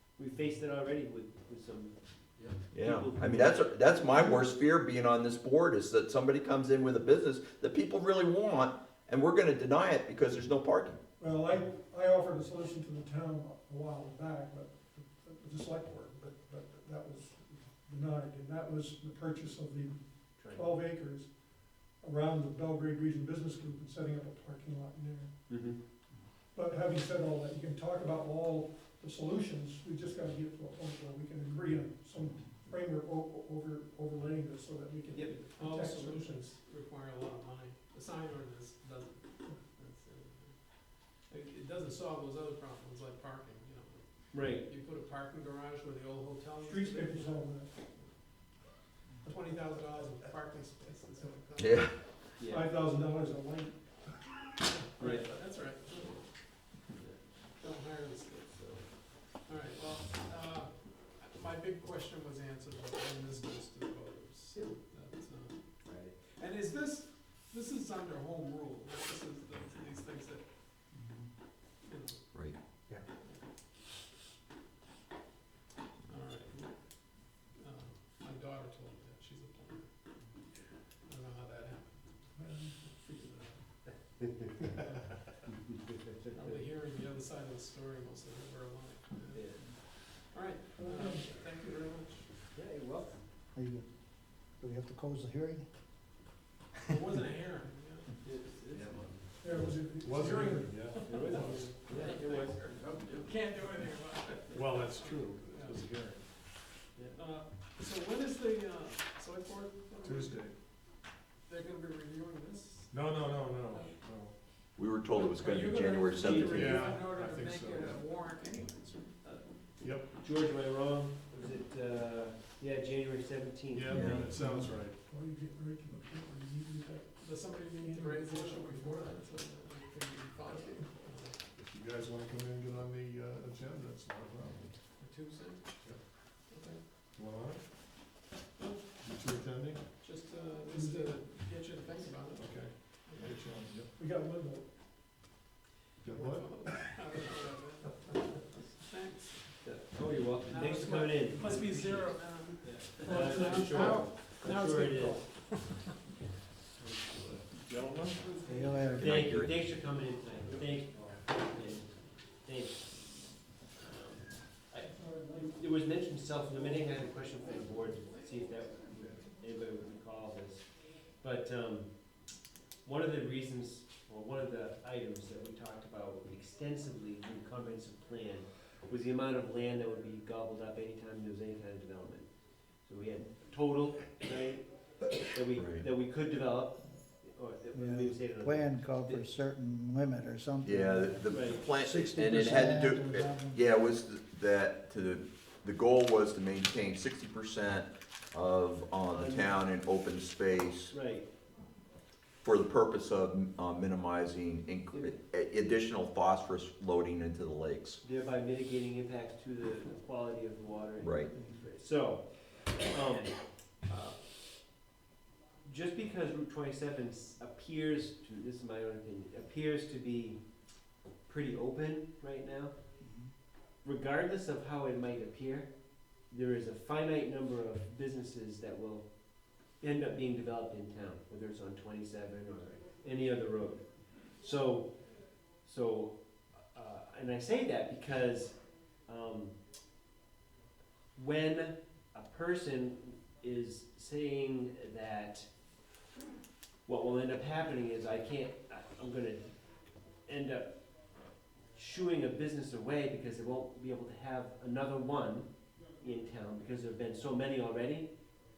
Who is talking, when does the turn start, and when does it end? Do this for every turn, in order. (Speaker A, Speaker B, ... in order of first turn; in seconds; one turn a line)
Speaker A: 0.2-1.9
Speaker B: 2.7-11.0
Speaker A: 2.7-3.9
Speaker C: 11.2-20.0
Speaker A: 20.4-20.7
Speaker C: 20.5-21.3
Speaker C: 22.0-25.3
Speaker A: 25.5-25.8
Speaker C: 26.5-36.5
Speaker A: 35.1-35.4
Speaker D: 35.6-48.1
Speaker A: 44.3-44.7
Speaker C: 46.6-47.7
Speaker D: 49.2-52.3
Speaker B: 51.6-52.3
Speaker A: 52.4-52.7
Speaker C: 52.5-54.4
Speaker A: 55.0-55.3
Speaker D: 55.0-56.3
Speaker A: 57.0-57.2
Speaker D: 57.5-70.5
Speaker A: 65.8-66.2
Speaker E: 70.9-71.3
Speaker D: 71.8-73.5
Speaker D: 76.1-79.9
Speaker D: 81.1-85.5
Speaker C: 82.4-82.8
Speaker D: 86.3-92.3
Speaker A: 89.3-89.7
Speaker C: 90.8-91.3
Speaker A: 92.5-93.2
Speaker E: 93.5-93.9
Speaker E: 94.6-95.7
Speaker D: 96.8-98.4
Speaker A: 98.2-99.7
Speaker C: 99.4-100.8
Speaker F: 100.0-101.8
Speaker D: 100.7-105.8
Speaker A: 101.0-103.1
Speaker F: 104.5-106.3
Speaker D: 107.1-110.5
Speaker F: 110.0-110.6
Speaker D: 111.4-114.0
Speaker F: 112.9-114.3
Speaker B: 114.8-117.0
Speaker D: 115.1-119.7
Speaker A: 116.2-116.7
Speaker F: 116.4-118.1
Speaker F: 119.8-120.1
Speaker A: 120.2-124.2
Speaker F: 123.7-125.0
Speaker E: 123.9-124.7
Speaker B: 123.9-124.3
Speaker C: 124.4-129.2
Speaker D: 127.2-131.4
Speaker F: 131.6-134.8
Speaker D: 135.0-136.8
Speaker F: 137.2-137.7
Speaker D: 138.6-138.8
Speaker F: 139.0-139.9
Speaker D: 140.0-143.4
Speaker C: 140.7-141.1
Speaker F: 142.3-143.9
Speaker C: 144.0-144.7
Speaker F: 146.0-146.7
Speaker D: 146.1-149.6
Speaker A: 149.6-155.5
Speaker D: 150.4-155.8
Speaker C: 153.1-153.7
Speaker A: 156.8-157.4
Speaker F: 157.6-158.3
Speaker D: 158.2-158.8
Speaker E: 158.4-159.5
Speaker B: 158.9-159.6
Speaker A: 159.0-163.2
Speaker A: 163.8-172.2
Speaker A: 172.8-182.3
Speaker A: 182.8-189.2
Speaker B: 185.6-185.8
Speaker E: 187.7-193.6
Speaker B: 190.6-200.9
Speaker A: 191.3-191.6
Speaker A: 199.1-199.6
Speaker A: 200.9-201.3
Speaker B: 202.4-208.0
Speaker A: 208.0-214.3
Speaker B: 211.0-211.3
Speaker E: 211.4-211.6
Speaker A: 215.6-220.4
Speaker A: 221.2-222.8
Speaker E: 223.0-223.3
Speaker A: 223.8-225.7
Speaker A: 226.2-235.0
Speaker A: 235.5-239.6
Speaker A: 241.2-245.5
Speaker A: 246.8-249.6
Speaker A: 250.2-250.9
Speaker A: 251.7-258.2